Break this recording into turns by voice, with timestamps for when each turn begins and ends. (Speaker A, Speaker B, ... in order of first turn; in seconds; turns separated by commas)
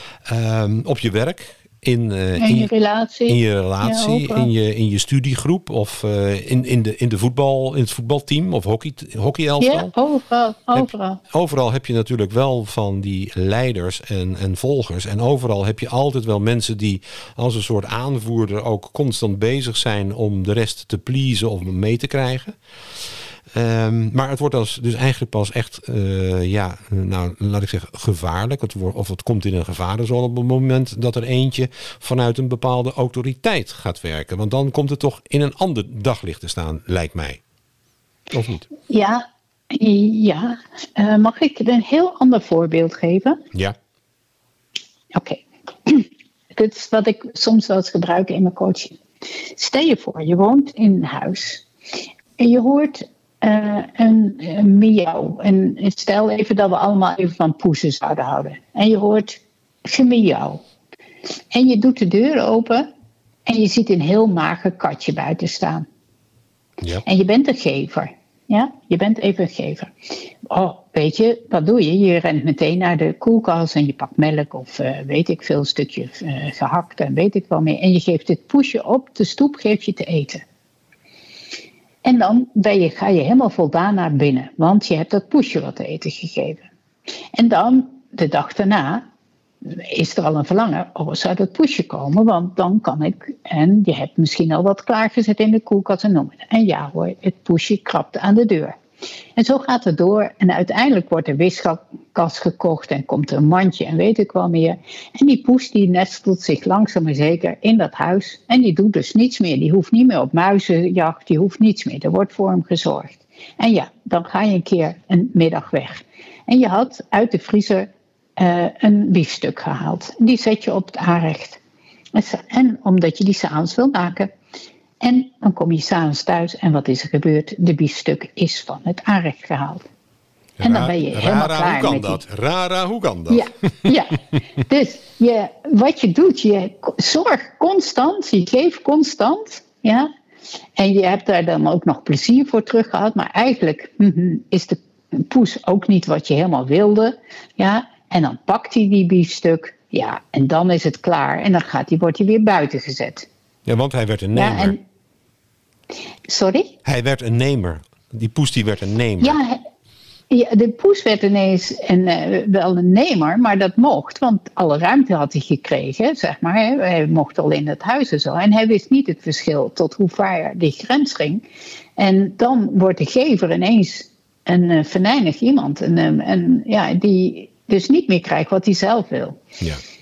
Speaker A: 0.2-2.7, Speaker B: 2.4-4.5, Speaker A: 3.3-9.9, Speaker B: 9.6-11.2, Speaker A: 10.7-37.4, Speaker A: 38.3-38.7, Speaker B: 38.9-43.4, Speaker B: 45.1-49.0, Speaker B: 49.5-51.6, Speaker B: 52.4-60.6, Speaker B: 61.5-62.9, Speaker B: 63.5-65.8, Speaker B: 67.0-80.4, Speaker B: 82.0-86.7, Speaker B: 87.3-89.0, Speaker B: 89.6-98.8, Speaker B: 99.3-121.6, Speaker B: 122.1-124.3, Speaker B: 125.0-129.8, Speaker A: 130.6-133.9, Speaker B: 130.6-132.2, Speaker B: 133.3-140.1, Speaker B: 140.8-153.3, Speaker A: 153.7-154.7, Speaker B: 154.3-154.8, Speaker B: 156.3-156.7, Speaker A: 156.8-159.4, Speaker B: 159.2-159.6, Speaker B: 160.3-171.4, Speaker B: 172.0-179.4